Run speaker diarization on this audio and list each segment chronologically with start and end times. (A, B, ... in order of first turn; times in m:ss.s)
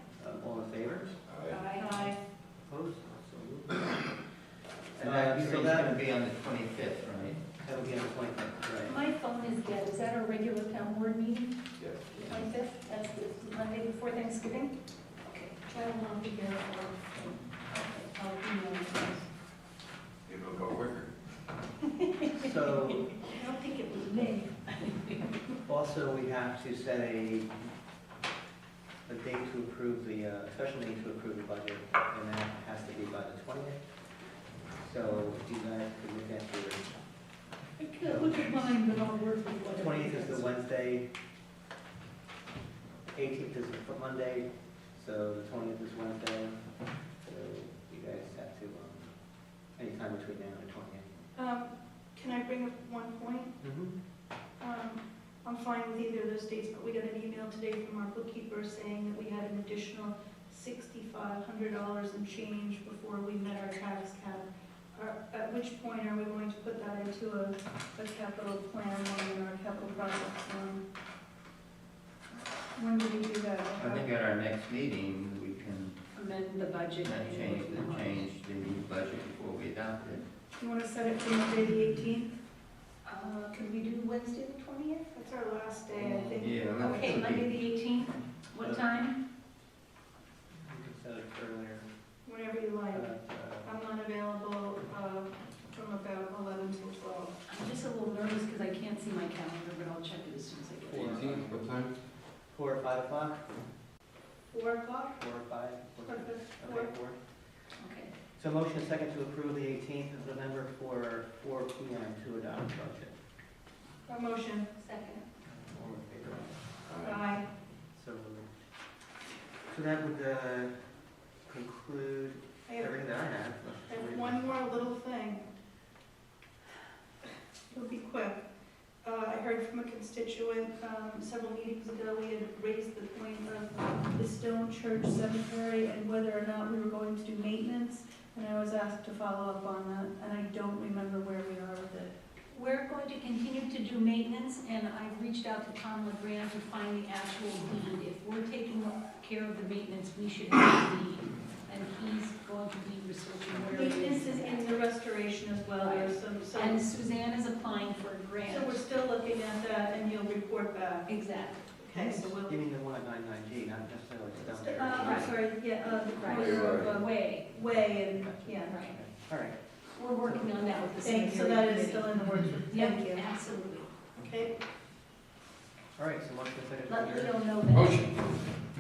0:00.2-0:01.2 A
0:01.3-0:01.6 B
0:01.5-0:02.1 C
0:01.7-0:02.2 D
0:02.7-0:04.2 A
0:05.0-0:07.4 E
0:05.0-0:06.0 A
0:07.6-0:09.0 A
0:08.8-0:14.7 C
0:11.8-0:12.2 B
0:15.3-0:15.6 C
0:15.6-0:17.3 D
0:17.7-0:19.2 C
0:18.5-0:19.1 D
0:20.3-0:21.1 B
0:22.0-0:23.2 C
0:22.4-0:23.1 A
0:23.3-0:24.5 D
0:23.9-0:25.3 C
0:25.6-0:27.5 A
0:29.1-0:33.8 A
0:34.8-0:36.9 A
0:37.8-0:40.5 C
0:38.0-0:38.8 A
0:39.6-0:41.1 A
0:43.1-0:46.6 A
0:47.2-0:49.2 A
0:49.7-0:51.1 A
0:51.4-0:53.5 D
0:53.6-0:53.9 A
0:54.6-1:10.8 D
1:12.7-1:14.0 D
1:13.8-1:16.0 E
1:16.1-1:18.3 C
1:17.0-1:20.3 E
1:20.6-1:22.4 D
1:23.1-1:25.1 C
1:25.1-1:27.3 D
1:26.0-1:27.5 E
1:26.8-1:29.2 C
1:28.6-1:28.9 A
1:30.6-1:31.9 A
1:32.2-1:33.1 D
1:32.9-1:33.7 A
1:33.6-1:37.3 D
1:37.5-1:41.2 C
1:40.9-1:41.6 A
1:41.0-1:41.9 B
1:42.5-1:43.5 A
1:44.5-1:45.2 D
1:45.2-1:47.2 A
1:46.0-1:46.9 D
1:47.8-1:48.1 C
1:48.4-1:53.2 A
1:54.1-1:54.7 D
1:54.8-1:55.3 C
1:55.5-1:56.7 A
1:56.8-1:57.3 B
1:57.0-1:57.5 D
1:58.0-1:58.5 A
1:59.7-2:00.8 A
2:01.5-2:04.5 A
2:02.7-2:02.9 D
2:03.9-2:05.5 D
2:07.7-2:08.4 D
2:09.0-2:22.1 D
2:22.5-2:34.9 C
2:33.7-2:36.8 D
2:35.8-2:38.8 C
2:38.4-2:41.2 D
2:41.1-2:41.7 C
2:41.7-2:42.6 D
2:41.9-2:45.3 A
2:44.5-2:48.8 D
2:45.0-2:47.5 C
2:46.3-2:47.0 B
2:47.5-2:50.6 A
2:48.7-2:49.0 C
2:49.9-2:52.2 C
2:51.0-2:53.3 D
2:52.7-2:53.9 C
2:54.2-2:54.5 D
2:56.0-2:57.4 A
2:56.9-2:58.4 C
2:57.7-2:58.1 B